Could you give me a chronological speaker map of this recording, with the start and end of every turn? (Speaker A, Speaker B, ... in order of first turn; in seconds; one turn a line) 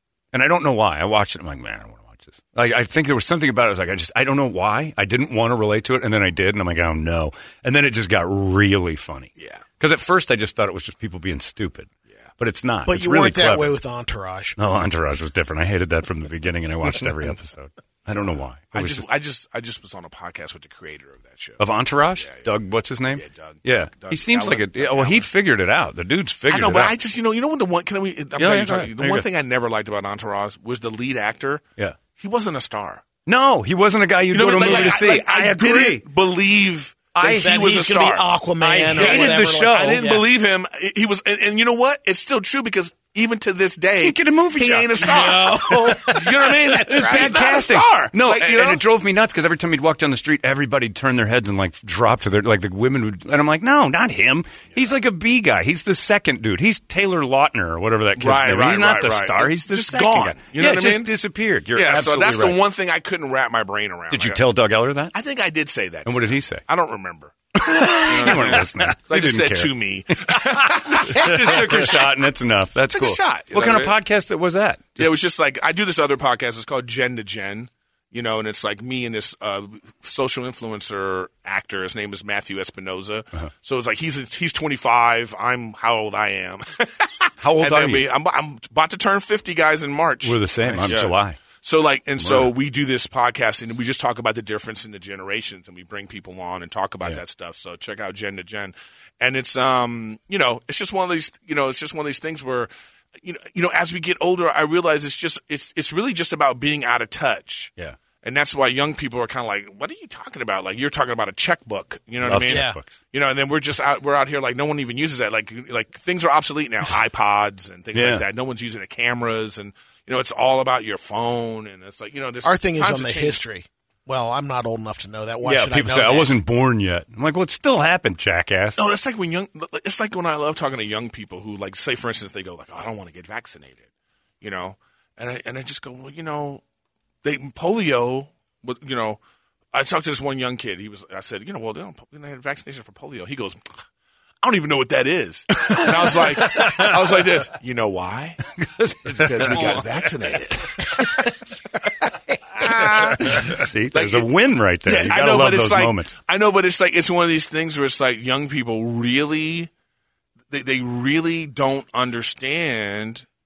Speaker A: 0.3-13.8
Speaker B: 12.8-14.6
Speaker A: 14.6-19.0
Speaker C: 18.1-21.6
Speaker A: 21.6-26.9
Speaker C: 22.2-22.5
Speaker C: 23.1-25.3
Speaker C: 26.5-33.0
Speaker A: 28.4-29.3
Speaker A: 33.2-36.0
Speaker C: 34.3-38.2
Speaker B: 34.6-35.0
Speaker A: 37.1-37.8
Speaker B: 37.2-40.2
Speaker A: 38.6-40.1
Speaker C: 38.9-48.8
Speaker A: 44.0-62.6
Speaker B: 45.0-47.5
Speaker C: 58.2-61.1
Speaker C: 61.7-64.4
Speaker A: 64.1-65.1
Speaker C: 65.1-72.3
Speaker A: 66.0-66.6
Speaker A: 67.5-75.1
Speaker C: 72.9-73.9
Speaker C: 75.0-102.7
Speaker A: 87.4-88.1
Speaker A: 90.2-91.4
Speaker A: 92.2-92.5
Speaker C: 103.2-123.4
Speaker A: 112.2-113.0
Speaker B: 112.4-112.8
Speaker A: 117.9-118.2
Speaker B: 122.4-126.4
Speaker A: 125.4-128.8
Speaker C: 128.8-133.8
Speaker C: 134.4-136.6
Speaker C: 137.2-139.2
Speaker C: 139.7-143.7
Speaker C: 144.4-148.4
Speaker A: 145.8-146.8
Speaker A: 148.6-150.9
Speaker C: 149.0-151.3
Speaker C: 152.6-154.3
Speaker A: 152.6-156.1
Speaker C: 154.8-159.7
Speaker C: 160.5-163.2